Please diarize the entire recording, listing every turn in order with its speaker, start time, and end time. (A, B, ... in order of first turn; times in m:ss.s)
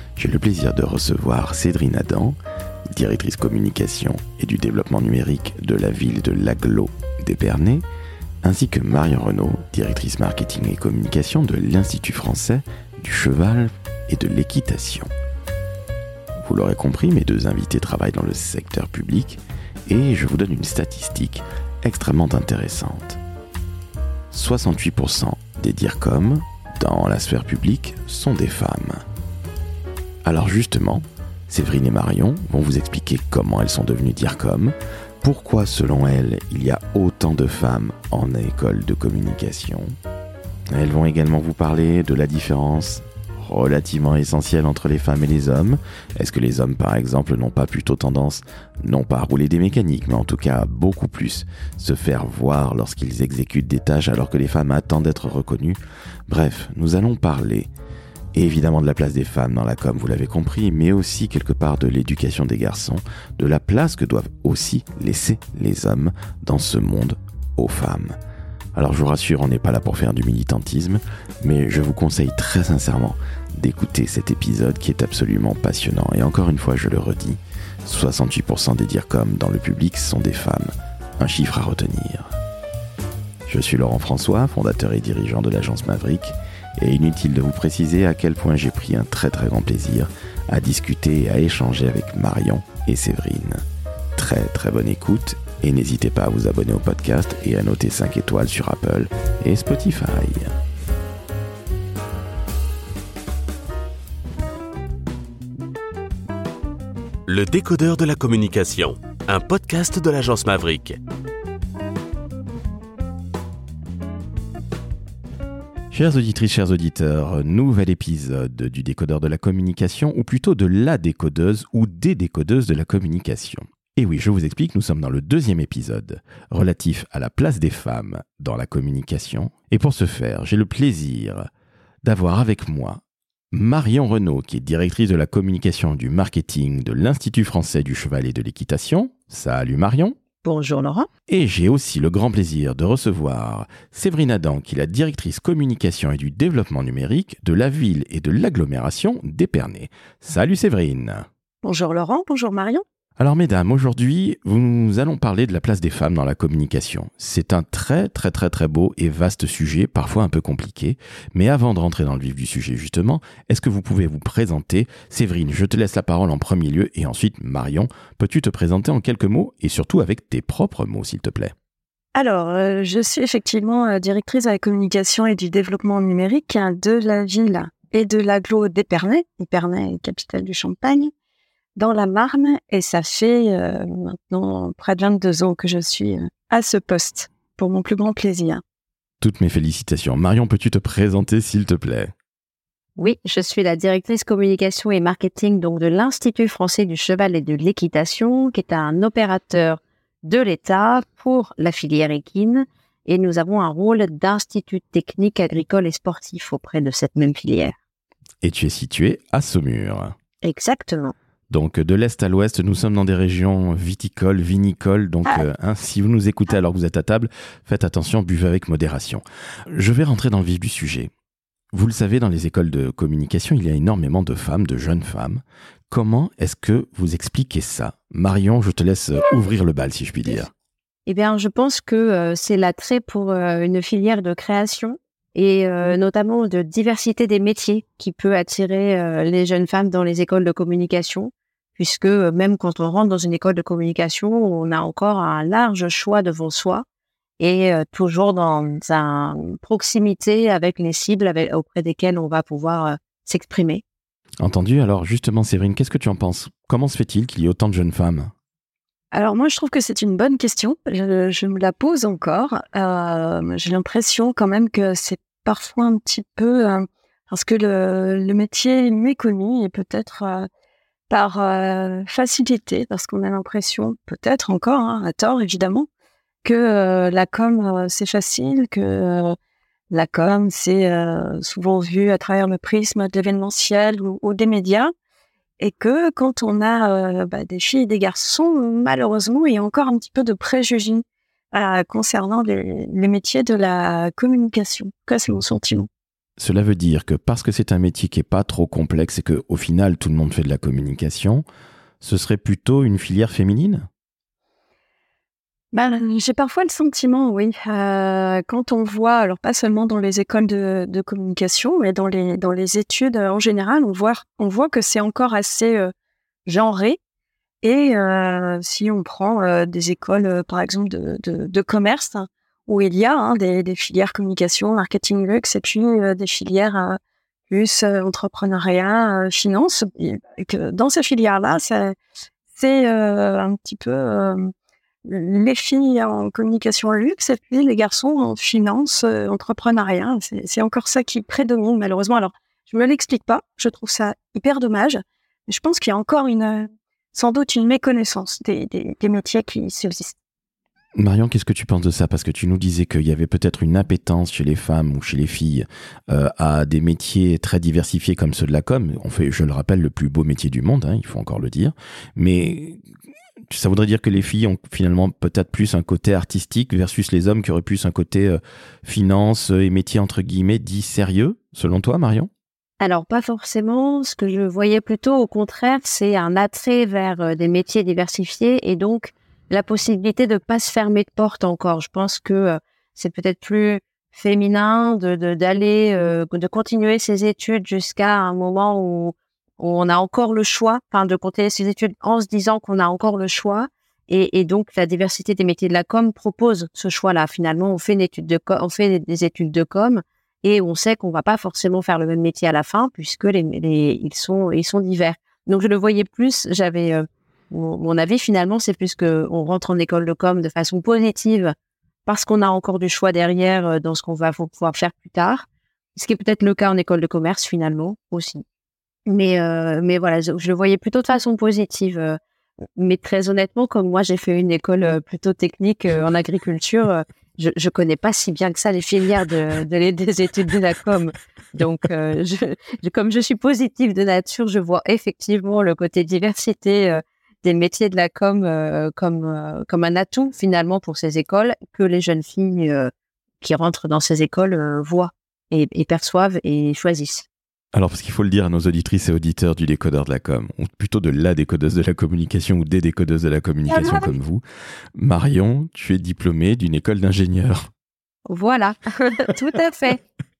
0:00.2-0:02.4 A
0:02.9-0:07.8 A
0:08.4-0:15.1 A
0:16.4-0:23.2 A
0:24.3-0:29.0 A
0:30.2-0:39.9 A
0:40.7-0:57.7 A
0:58.4-1:08.2 A
1:08.8-1:22.3 A
1:23.5-1:33.6 A
1:34.2-1:40.5 A
1:47.3-1:51.0 B
1:55.9-2:11.5 A
2:12.0-2:13.0 A
2:13.5-2:20.2 A
2:20.4-2:21.1 C
2:21.3-2:31.3 A
2:31.6-2:32.8 D
2:33.2-2:51.5 A
2:52.2-3:01.1 D
3:01.8-3:08.6 D
3:09.2-3:12.1 A
3:13.0-3:27.8 C
3:28.4-3:30.1 A
3:30.4-3:31.2 C
3:31.5-3:41.1 A
3:41.7-3:50.5 A
3:51.1-4:06.8 C
4:07.4-4:13.8 C
4:14.4-4:18.3 A
4:19.1-4:30.5 D
4:31.1-4:35.9 D
4:36.4-4:39.4 D
4:39.9-4:44.9 D
4:45.6-4:55.9 D
4:56.4-5:01.4 A
5:02.0-5:03.9 A
5:05.7-5:15.9 D
5:16.5-5:17.0 D
5:17.6-5:27.0 D
5:27.5-5:32.0 D
5:32.5-5:34.5 D
5:35.0-5:50.2 D
5:51.0-6:02.8 A
6:03.5-6:12.3 A
6:12.8-6:51.6 C
6:52.1-6:58.4 C
6:59.1-7:02.2 C
7:02.8-7:27.3 C
7:27.7-7:34.4 A
7:33.7-7:34.2 C
7:35.0-7:37.7 A
7:38.3-7:40.0 C